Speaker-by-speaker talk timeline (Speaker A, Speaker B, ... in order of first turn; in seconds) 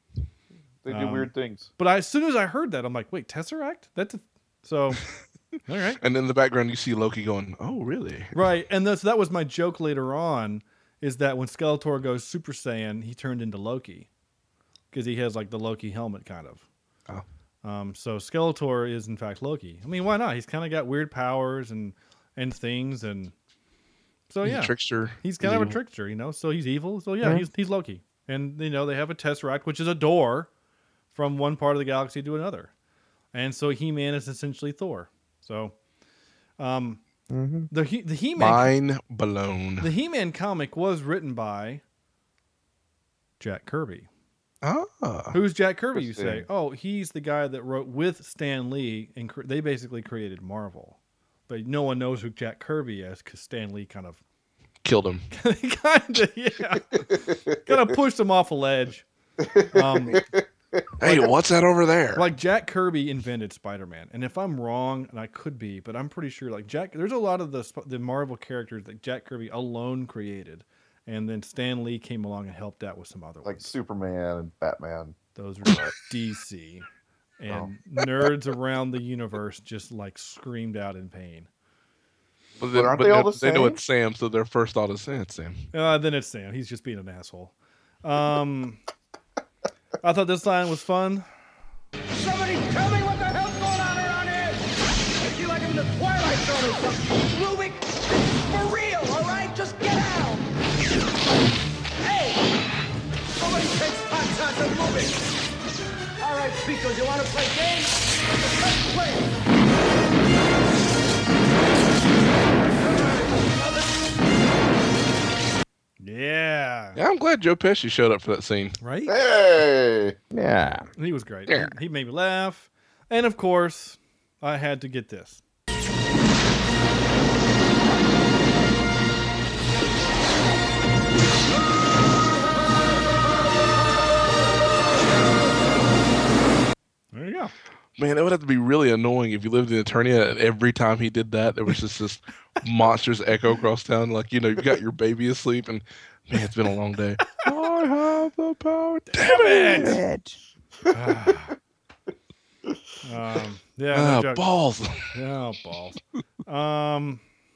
Speaker A: 0.8-1.7, 45.9-46.5, 59.4-61.2, 73.4-75.2, 82.7-83.8, 119.1-120.2
Speaker B: 0.9-5.0, 5.7-6.0, 8.3-14.1, 14.9-16.6, 17.6-23.3, 24.3-30.5, 31.1-32.7, 33.3-35.8, 36.6-37.0, 37.7-38.7, 39.8-41.8, 43.4-44.1, 45.3-51.0, 51.5-54.2, 55.3-59.0, 59.7-60.2, 62.1-73.7, 75.3-76.8, 77.4-81.5, 85.7-87.5, 88.0-88.8, 90.0-91.2, 116.0-117.0, 118.8-119.1, 121.0-125.4, 137.1-137.5, 149.1-150.0, 150.9-151.5, 153.0-154.4, 155.1-157.2
Speaker C: 6.0-8.3, 24.4-25.7, 38.4-39.9, 44.6-45.3, 54.8-55.2, 61.0-62.3, 82.6-85.6, 117.0-118.8, 138.0-150.0, 153.9-155.1
Speaker D: 37.3-37.7, 120.3-120.9, 149.2-150.4
Speaker E: 92.1-94.7, 95.2-100.4, 102.0-102.4, 103.3-105.3, 106.2-109.4, 112.6-114.2